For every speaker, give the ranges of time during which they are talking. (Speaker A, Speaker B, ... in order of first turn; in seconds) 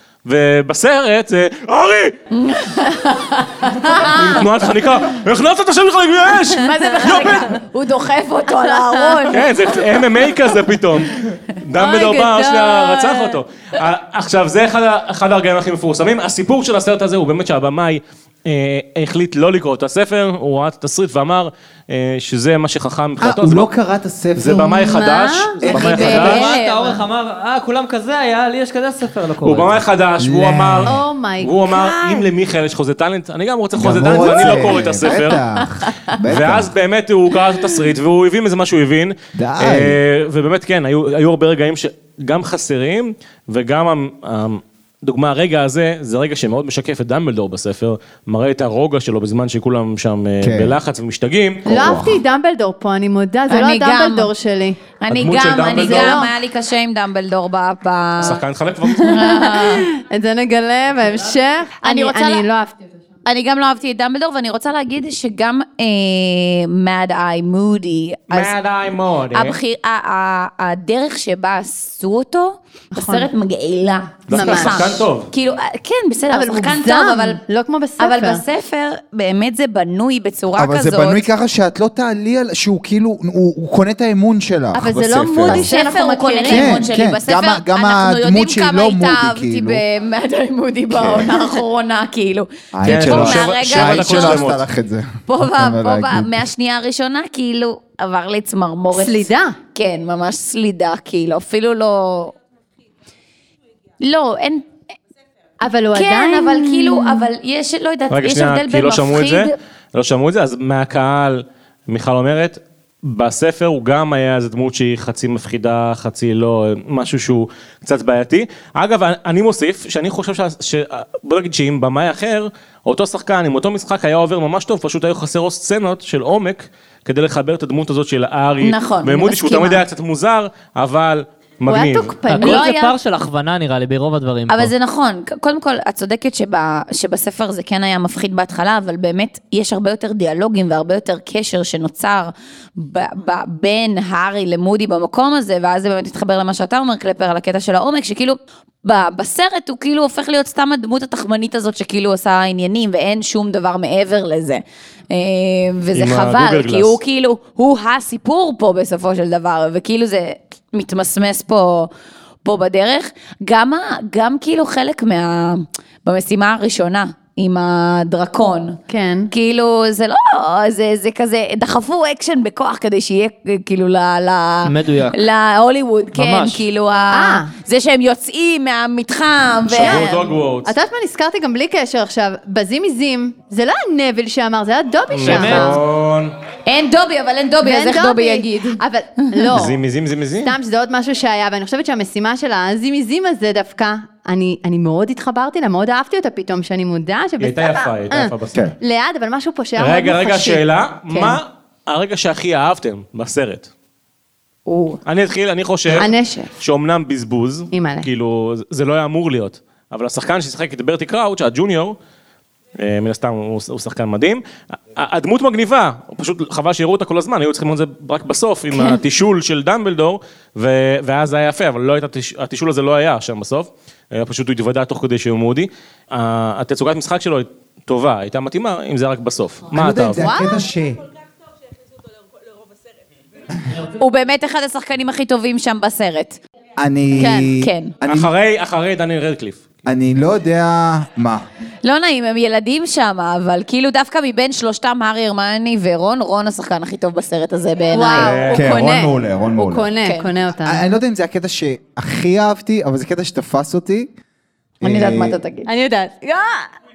Speaker A: 0.3-2.2, 4.0-7.6, 9.3-23.7, 24.4-26.5, 29.4-35.4, 36.3-51.7, 55.1-56.3, 58.2-59.2, 68.3-69.6, 74.3-75.3, 92.8-94.6, 108.1-132.1, 155.9-157.0, 179.7-180.7, 185.1-186.3, 189.5-190.5, 197.4-198.7, 199.8-203.7, 205.1-212.0, 212.8-214.4, 214.9-230.2, 238.0-239.6, 248.1-248.7
Speaker B: 2.3-4.4, 6.6-9.8, 25.9-26.7, 53.5-54.3, 55.0-58.4, 59.0-59.9, 61.8-62.5, 63.3-68.6, 69.3-77.4, 78.0-81.3, 85.5-94.5, 95.3-102.3, 104.0-104.7, 105.9-109.5, 128.6-129.8, 132.4-132.9, 134.5-161.9, 162.4-180.2, 186.7-188.8, 204.7-205.0, 218.7-219.0, 234.0-236.4, 237.6-237.9, 241.8-248.4, 250.0-250.3, 254.8-255.7
Speaker C: 3.9-4.2, 6.8-7.4, 8.6-9.5, 11.8-13.4, 24.8-27.0, 30.9-32.2, 51.7-54.8, 55.8-56.3, 58.9-62.8, 72.9-73.3, 74.3-75.0, 76.3-78.4, 84.8-86.9, 98.9-99.6, 105.6-107.3, 131.7-132.7, 168.9-169.3, 177.1-177.5, 179.7-185.8, 187.6-189.8, 190.4-201.4, 205.9-206.5, 207.7-208.1, 230.2-230.6, 237.2-237.5, 247.9-250.8, 255.7-256.7
Speaker D: 23.2-25.0, 25.6-26.1, 30.2-31.0, 33.8-36.7, 39.3-40.0, 50.4-50.8, 51.7-52.2, 80.6-85.7, 86.5-89.8, 90.9-91.3, 92.7-96.4, 229.7-231.0, 236.8-238.3, 239.9-241.5, 248.5-249.9, 250.6-254.1, 254.8-255.4
Speaker E: 25.9-29.8, 132.3-134.7, 174.6-175.2, 176.2-176.7, 185.2-185.8